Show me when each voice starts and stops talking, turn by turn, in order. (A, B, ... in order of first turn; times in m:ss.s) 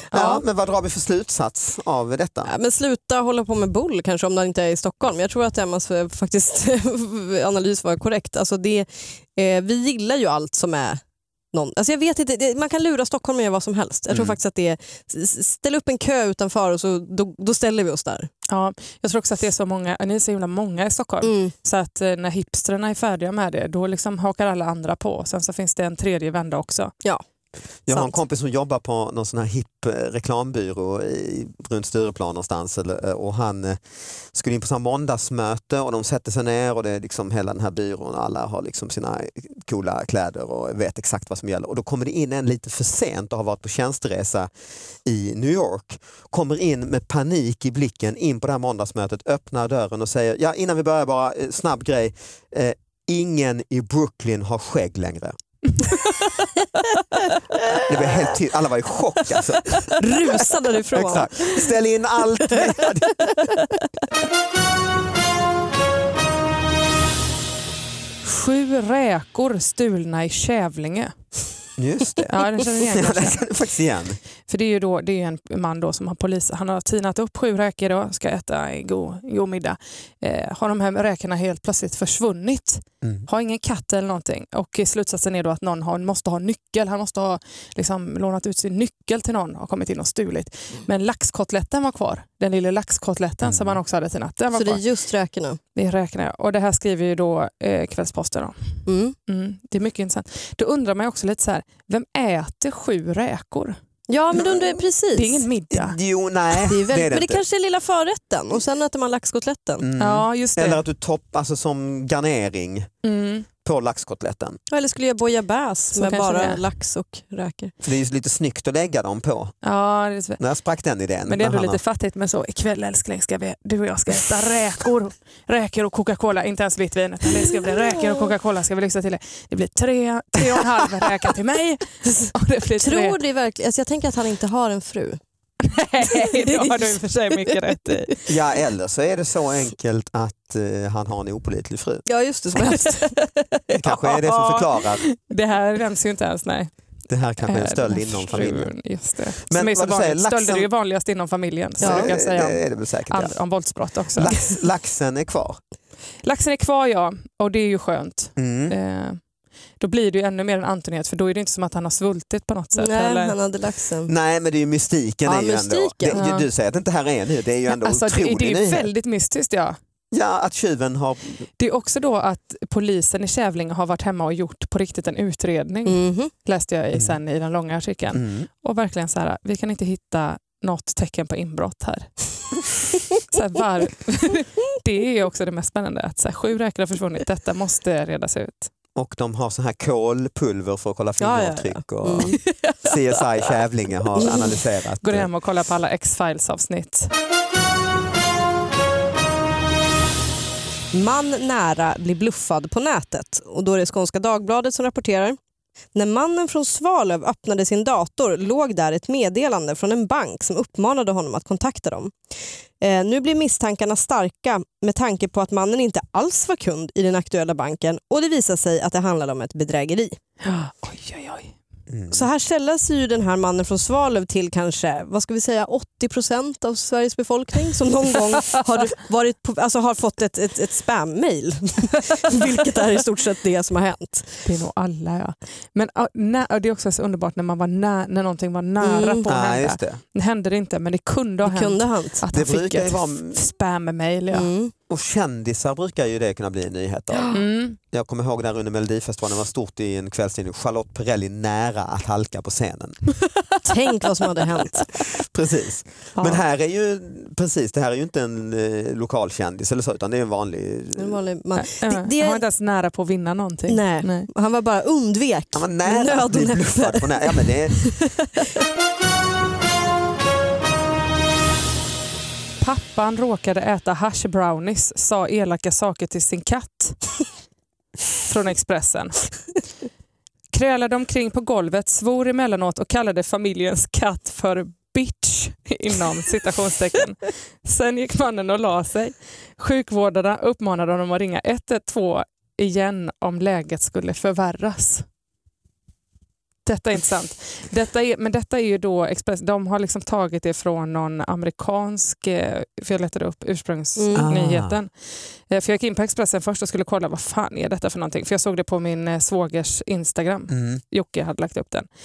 0:00.1-0:02.5 A
0:00.1-0:00.4 B
0:02.4-0:11.0 C
0:11.5-0:18.3 C
0:14.1-0:14.4 A
0:18.5-0:26.9 B
0:21.2-0:21.5 C
0:27.9-0:44.5 A
0:27.9-0:28.2 C
0:45.0-0:55.4 A
0:57.6-0:58.4 C
0:57.7-1:03.6 A
0:59.3-1:03.8 C
1:08.2-1:11.1 B
1:11.8-1:14.2 A
1:12.2-1:13.4 B
1:14.5-1:34.8 B
1:33.4-1:33.8 A
1:34.5-1:35.6 C
1:35.7-1:38.7 B
1:38.9-1:39.2 C
1:39.3-1:43.8 B
1:44.1-1:45.4 C
1:45.1-1:46.0 B
1:45.7-1:47.4 A
1:46.7-1:49.9 C
1:49.8-1:52.9 A
1:50.0-1:50.8 B
1:53.0-1:53.4 B
1:53.6-1:54.6 A
1:54.7-1:57.7 C
1:55.9-1:56.6 B
1:57.8-1:59.5 A
1:59.6-2:00.4 B
2:00.4-2:01.8 A
2:01.2-2:13.2 B
2:08.0-2:08.3 C
2:12.2-2:15.2 C
2:15.6-2:18.2 B
2:16.3-2:17.0 C
2:18.3-2:22.0 A
2:22.0-2:23.2 C
2:22.7-2:23.2 B
2:23.7-2:25.0 A
2:23.9-2:26.7 B
2:27.1-2:28.8 A
2:27.4-2:34.4 B
2:29.4-2:30.7 A
2:31.8-2:32.1 C
2:31.8-2:33.4 A
2:34.1-2:35.6 A
2:36.2-2:39.2 B
2:38.4-2:38.8 A
2:39.8-2:43.4 B
2:42.8-2:44.1 C
2:44.1-2:48.9 A
2:45.2-2:46.3 C
2:46.1-2:46.5 B
2:47.7-2:49.8 B
2:50.1-2:51.4 A
2:51.6-3:02.2 B
2:55.8-2:56.3 C
2:58.1-2:58.5 A
3:03.2-3:08.7 B
3:08.9-3:15.3 A
3:11.2-3:13.6 C
3:14.2-3:14.6 C
3:15.0-3:17.1 B
3:20.9-3:25.4 C
3:25.9-3:40.2 C
3:40.4-3:41.6 B
3:41.9-3:42.3 A
3:42.1-3:54.4 C
3:54.4-4:04.5 B
3:58.8-3:59.3 C
3:59.2-4:00.0 A
4:01.4-4:02.2 C
4:02.3-4:03.4 A
4:04.3-4:04.7 C
4:04.9-4:13.0 A
4:07.1-4:07.4 C
4:07.3-4:07.8 B
4:13.6-4:14.9 C
4:15.0-4:21.2 A
4:16.2-4:16.4 C
4:21.0-4:22.4 C
4:21.6-4:24.3 B
4:23.7-4:28.5 C
4:25.5-4:27.9 A
4:32.6-4:37.1 B
4:38.2-4:39.3 B
4:40.5-4:55.0 B
4:56.6-5:04.9 B
5:04.0-5:04.3 C
5:04.1-5:04.8 A
5:05.5-5:11.9 B
5:10.5-5:10.8 A